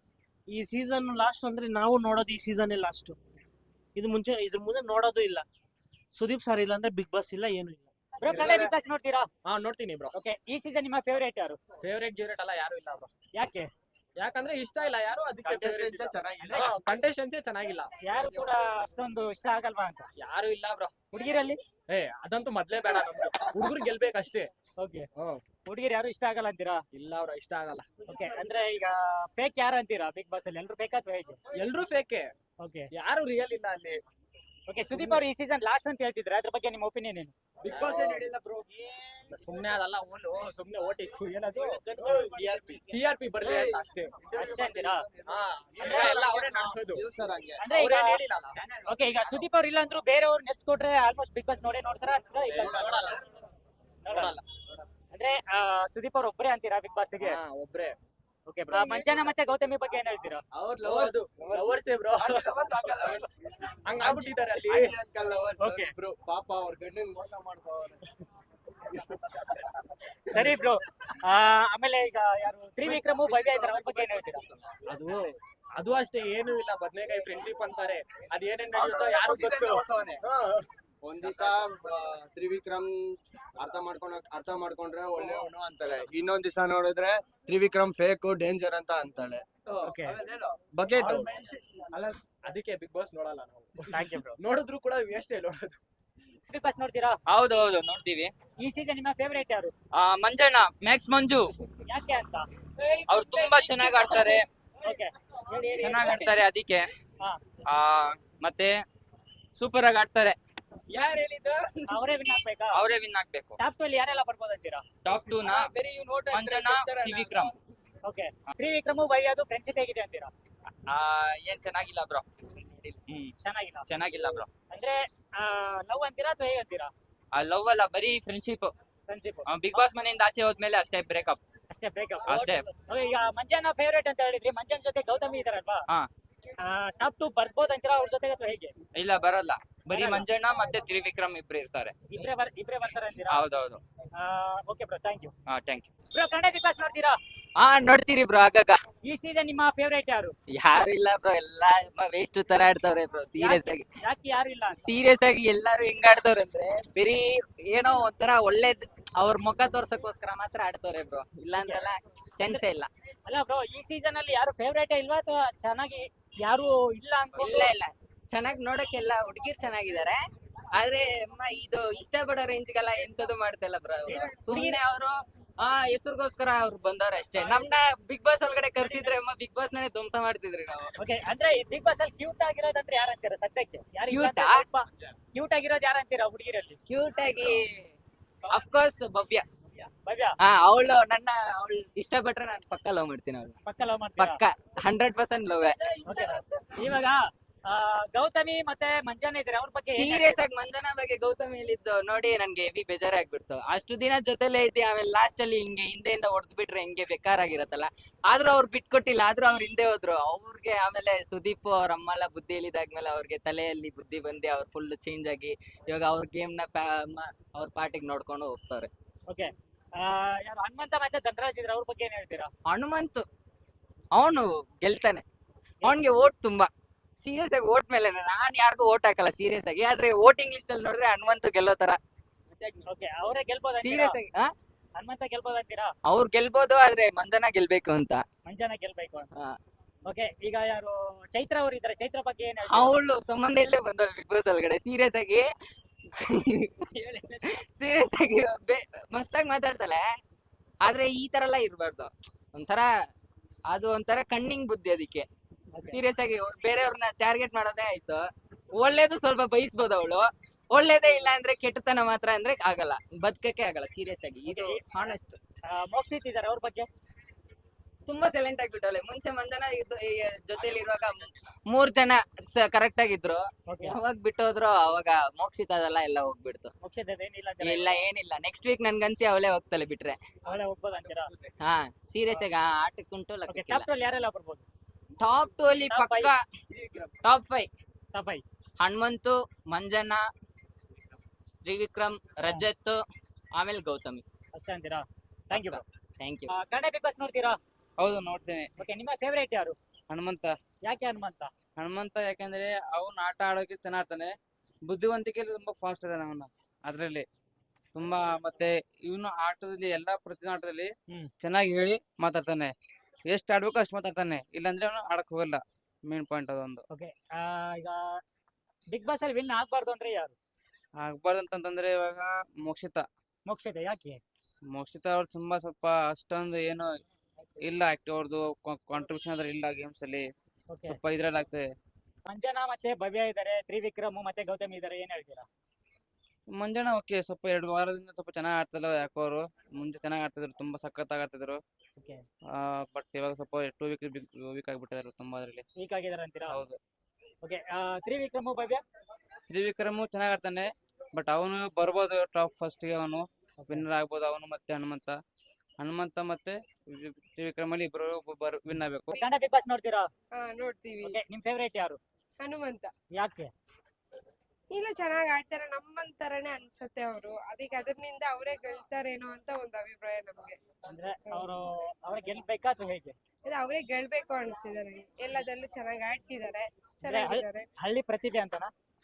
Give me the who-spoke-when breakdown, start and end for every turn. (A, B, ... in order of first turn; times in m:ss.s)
0:00.5-0:03.2 A
0:04.0-0:05.4 A
0:06.1-0:07.9 A
0:08.2-0:09.3 B
0:08.3-0:08.7 C
0:09.4-0:10.2 C
0:10.2-0:11.6 B
0:11.8-0:13.1 C
0:13.4-0:13.7 B
0:14.2-0:17.9 C
0:15.4-0:16.7 D
0:18.0-0:20.1 B
0:20.2-0:21.0 C
0:21.1-0:21.6 B
0:21.9-0:24.5 C
0:24.8-0:25.1 B
0:25.2-0:25.4 C
0:25.6-0:26.8 B
0:26.9-0:27.9 C
0:28.1-0:31.4 B
0:31.5-0:32.3 C
0:32.6-0:32.9 B
0:32.9-0:34.0 C
0:34.7-0:37.3 B
0:34.9-0:35.2 C
0:37.6-0:38.4 C
0:39.3-0:44.5 C
0:42.2-0:42.9 D
0:44.4-0:45.1 B
0:45.3-0:47.0 C
0:45.8-0:47.7 D
0:47.6-0:48.2 B
0:47.7-0:48.6 C
0:48.9-0:53.0 B
0:52.5-0:53.2 D
0:52.6-0:53.2 C
0:54.0-0:54.4 B
0:54.1-0:54.4 C
0:55.1-0:57.4 B
0:57.2-0:58.0 C
0:58.5-1:00.4 B
0:58.7-0:59.2 C
1:00.5-1:01.8 D
1:00.9-1:03.1 C
1:02.6-1:03.4 D
1:03.8-1:05.0 C
1:04.0-1:08.0 D
1:05.6-1:05.9 B
1:09.0-1:09.4 D
1:10.3-1:14.4 B
1:14.9-1:20.7 C
1:21.0-1:29.4 D
1:29.8-1:30.2 B
1:30.7-1:31.4 D
1:31.0-1:35.8 C
1:33.9-1:34.4 B
1:36.5-1:37.2 B
1:37.3-1:38.3 E
1:38.6-1:39.7 B
1:39.9-1:41.5 E
1:41.9-1:42.5 B
1:42.8-1:44.4 F
1:43.1-1:44.5 E
1:44.8-1:46.2 B
1:45.8-1:46.9 E
1:45.8-1:46.4 F
1:47.6-1:48.8 E
1:49.6-1:50.4 E
1:50.9-1:52.0 F
1:51.9-1:52.8 B
1:52.7-1:53.6 E
1:53.6-1:54.8 B
1:55.0-1:57.5 E
1:58.0-2:00.3 B
2:00.9-2:03.3 E
2:03.4-2:03.8 B
2:03.9-2:04.5 E
2:04.7-2:06.9 B
2:07.3-2:08.7 E
2:09.1-2:09.8 B
2:09.5-2:11.4 E
2:11.7-2:15.8 B
2:12.3-2:12.7 E
2:12.3-2:12.7 F
2:16.6-2:18.7 B
2:18.9-2:22.0 E
2:19.9-2:20.3 B
2:22.1-2:23.4 B
2:23.3-2:23.8 E
2:24.1-2:25.3 B
2:25.5-2:25.9 E
2:26.1-2:27.2 B
2:27.6-2:28.8 F
2:29.0-2:30.4 B
2:30.5-2:33.9 F
2:33.4-2:34.8 B
2:34.8-2:42.9 F
2:43.3-2:47.7 B
2:47.4-2:50.2 F
2:50.7-3:00.9 F
2:54.1-2:54.8 B
2:58.8-2:59.1 B
3:01.0-3:06.8 B
3:04.0-3:04.6 F
3:06.9-3:07.9 F
3:08.5-3:09.4 F
3:10.0-3:10.4 B
3:10.4-3:13.6 F
3:13.6-3:14.4 B
3:14.2-3:16.0 F
3:16.0-3:20.4 B
3:19.9-3:38.9 F
3:39.3-3:42.5 B
3:42.7-3:43.2 F
3:44.2-3:45.2 F
3:45.8-3:52.0 F
3:52.8-3:54.2 B
3:53.8-3:54.5 F
3:55.0-3:55.9 B
3:56.1-3:58.2 F
3:58.4-3:59.3 B
4:00.1-4:03.0 B
4:02.7-4:05.5 F
4:06.2-4:10.0 F
4:10.8-4:12.9 F
4:13.7-4:15.3 F
4:15.7-4:16.0 B
4:15.8-4:25.4 F
4:24.5-4:24.8 B
4:25.7-4:26.9 B
4:28.0-4:36.7 F
4:33.7-4:34.0 B
4:36.8-4:38.0 B
4:37.6-4:40.2 F
4:40.5-4:41.3 B
4:41.6-4:43.9 F
4:43.5-4:44.6 B
4:45.2-4:46.4 F
4:45.9-4:46.3 B
4:47.2-4:47.7 F
4:48.1-4:48.4 B
4:48.8-4:50.3 F
4:51.6-4:53.0 F
4:53.5-4:54.2 F
4:54.6-4:55.8 B
4:55.5-4:56.5 F
4:56.5-4:57.6 B
4:58.0-4:58.7 G
4:58.8-4:59.8 B
5:00.1-5:00.5 G
5:00.9-5:01.5 B
5:01.8-5:04.3 G
5:04.9-5:07.2 G
5:07.9-5:12.7 G
5:13.3-5:16.8 G
5:16.9-5:18.2 B
5:18.9-5:20.4 B
5:21.0-5:23.0 G
5:23.5-5:24.2 B
5:24.7-5:26.9 G
5:27.6-5:30.3 G
5:30.7-5:31.0 B
5:30.8-5:31.7 G
5:32.3-5:35.5 B
5:36.5-5:41.6 G
5:42.0-5:42.2 B
5:42.6-5:45.6 G
5:45.8-5:46.6 B
5:46.5-5:46.8 G
5:47.4-5:48.8 B
5:49.5-5:55.2 G
5:55.8-5:59.1 G
5:59.1-6:00.1 B
6:00.3-6:01.2 H
6:01.0-6:02.0 B
6:02.4-6:02.9 H
6:03.1-6:03.5 B
6:04.7-6:10.6 H
6:10.9-6:13.2 B
6:13.5-6:17.7 H
6:17.0-6:18.7 B